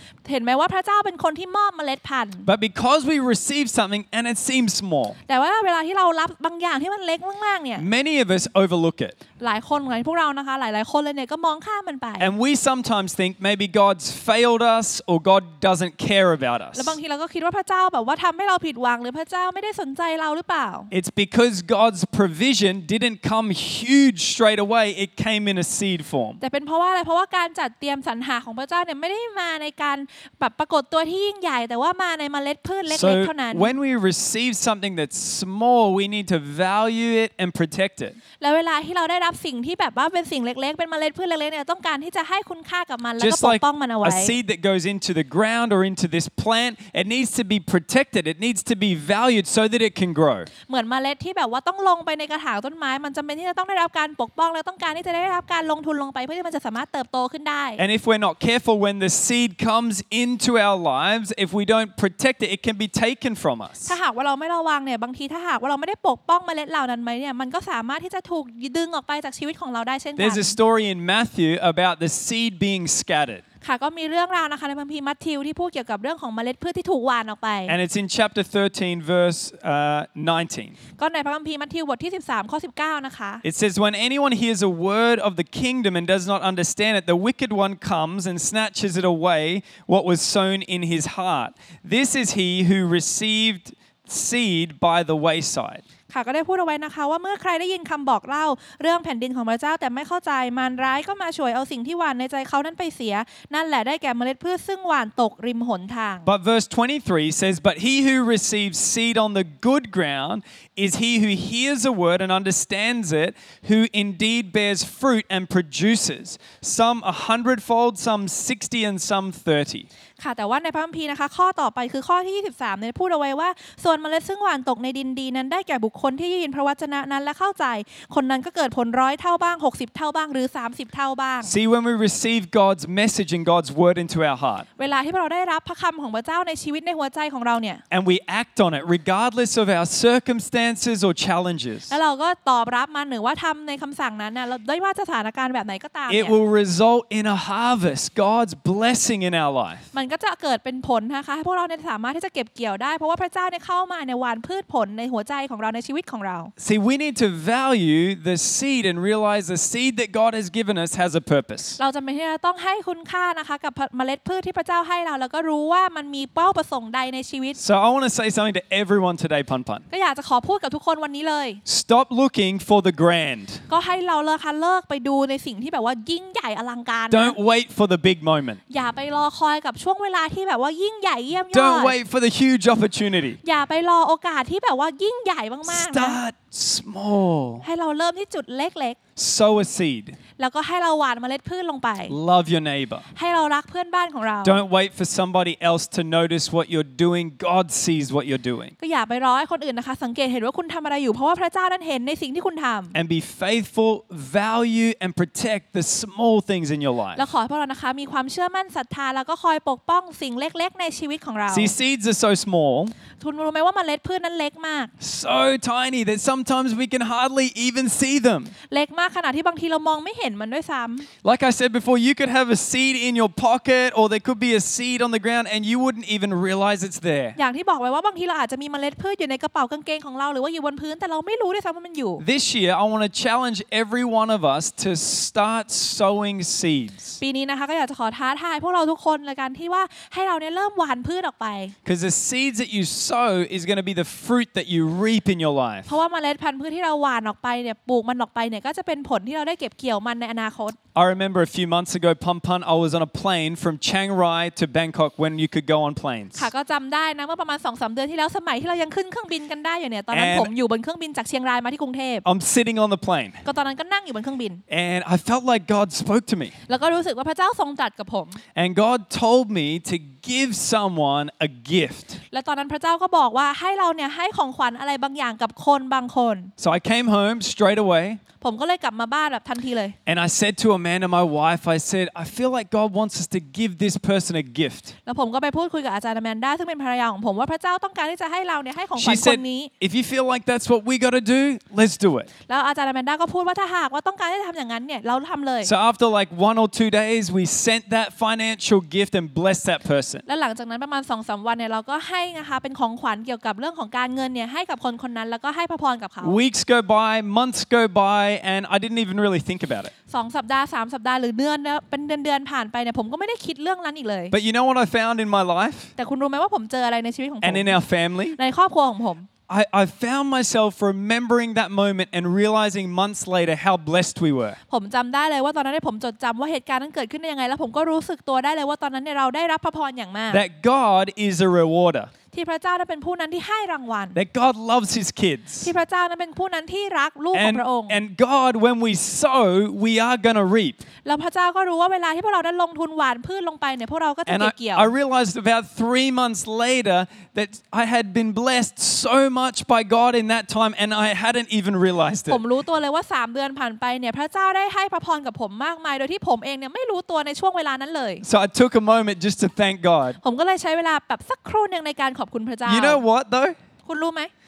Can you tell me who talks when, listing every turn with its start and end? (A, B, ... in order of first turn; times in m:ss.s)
0:00.2-0:02.5 A
0:02.5-0:05.2 B
0:05.3-0:07.8 A
0:07.8-0:09.2 B
0:09.4-0:12.3 A
0:12.2-0:17.0 B
0:16.7-0:20.9 A
0:20.9-0:26.4 B
0:26.4-0:33.7 A
0:32.9-0:38.2 B
0:38.4-0:44.4 A
0:43.2-0:50.5 B
0:50.7-0:57.8 A
0:57.8-1:03.9 B
1:03.9-1:10.6 A
1:10.2-1:13.4 B
1:13.6-1:17.8 A
1:17.7-1:20.8 B
1:21.0-1:23.4 A
1:23.4-1:35.8 B
1:36.1-1:46.3 A
1:46.3-1:59.9 B
2:00.2-2:11.5 A
2:11.4-2:14.7 B
2:14.8-2:17.8 A
2:17.9-2:22.0 B
2:21.9-2:26.4 A
2:26.1-2:29.9 B
2:29.9-2:36.5 A
2:36.6-2:41.8 B
2:41.8-2:47.6 A
2:47.6-2:49.8 B
2:49.9-2:51.6 A
2:51.7-2:53.6 B
2:53.7-2:57.4 A
2:57.1-2:58.6 B
2:58.7-3:02.0 A
3:01.5-3:03.4 B
3:03.4-3:06.2 A
3:05.7-3:07.6 B
3:07.6-3:09.0 A
3:09.2-3:10.2 B
3:10.4-3:12.2 A
3:12.1-3:13.0 B
3:13.2-3:14.6 A
3:14.4-3:18.7 B
3:18.8-3:23.0 A
3:22.9-3:27.2 B
3:27.2-3:31.7 A
3:31.5-3:32.9 B
3:33.2-3:34.9 A
3:35.0-3:38.5 B
3:38.7-3:41.1 A
3:41.2-3:47.4 B
3:47.4-3:52.2 A
3:52.2-3:57.2 B
3:57.2-4:01.7 A
4:01.8-4:05.9 B
4:05.9-4:10.8 A
4:11.0-4:16.5 B
4:16.4-4:22.2 A
4:20.1-4:20.5 B
4:22.2-4:23.4 B
4:23.4-4:24.6 A
4:24.7-4:26.5 B
4:26.7-4:28.4 A
4:28.6-4:32.2 B
4:32.3-4:36.5 A
4:36.6-4:38.2 B
4:38.4-4:40.0 A
4:40.1-4:44.9 B
4:45.1-4:49.7 A
4:49.0-4:52.3 B
4:52.5-4:55.7 A
4:55.6-5:00.2 B
5:00.3-5:06.4 A
5:06.2-5:09.9 B
5:10.1-5:14.4 A
5:14.3-5:15.9 B
5:16.0-5:17.8 A
5:17.4-5:18.4 B
5:18.4-5:19.3 A
5:19.5-5:24.6 B
5:24.7-5:30.4 A
5:30.3-5:32.1 B
5:32.3-5:34.2 A
5:34.2-5:35.7 B
5:35.6-5:38.0 A
5:37.3-5:40.8 B
5:41.0-5:44.9 A
5:44.3-5:52.4 B
5:52.3-5:58.2 A
5:58.2-6:00.2 B
6:00.2-6:03.0 A
6:02.7-6:03.6 B
6:03.8-6:04.3 A